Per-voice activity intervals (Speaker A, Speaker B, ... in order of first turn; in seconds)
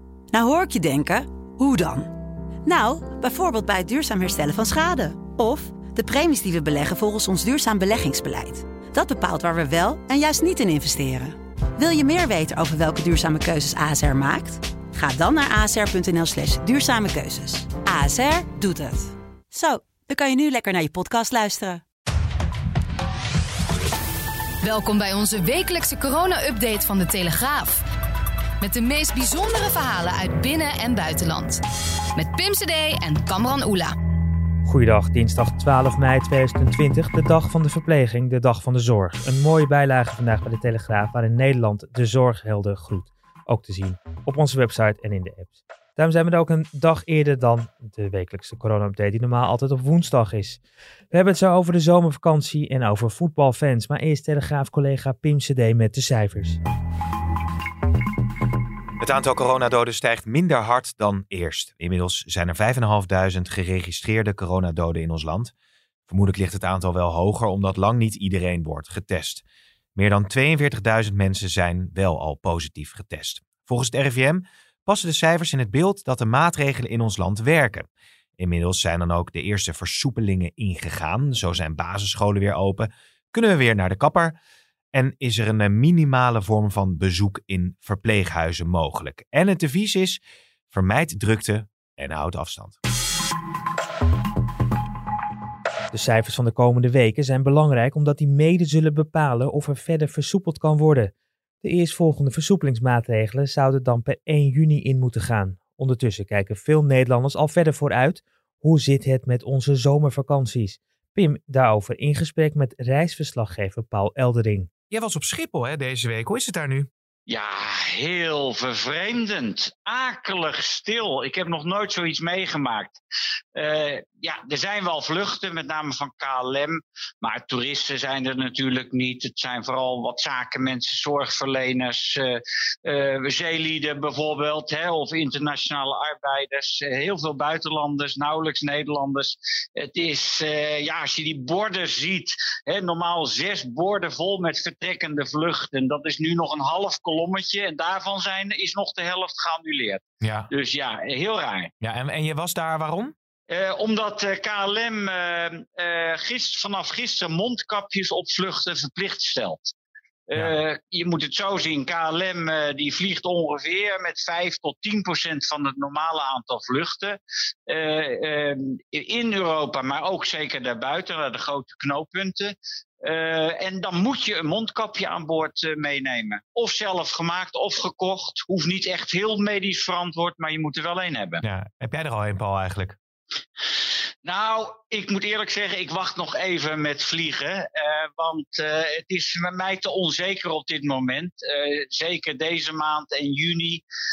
Speaker A: 0.3-21.8
Speaker B: 24.6-27.8, 28.6-31.6, 32.1-33.9
Speaker C: 34.6-50.6, 51.1-56.6, 95.9-114.7
Speaker D: 59.0-65.5, 66.1-69.4, 70.0-77.8, 78.4-84.3, 84.9-90.2, 90.7-92.8, 114.9-116.9, 150.2-150.5, 151.8-153.1, 181.4-183.0
Speaker E: 117.3-123.0, 123.5-151.7, 153.5-159.7, 160.3-167.2, 167.7-181.4, 184.2-193.8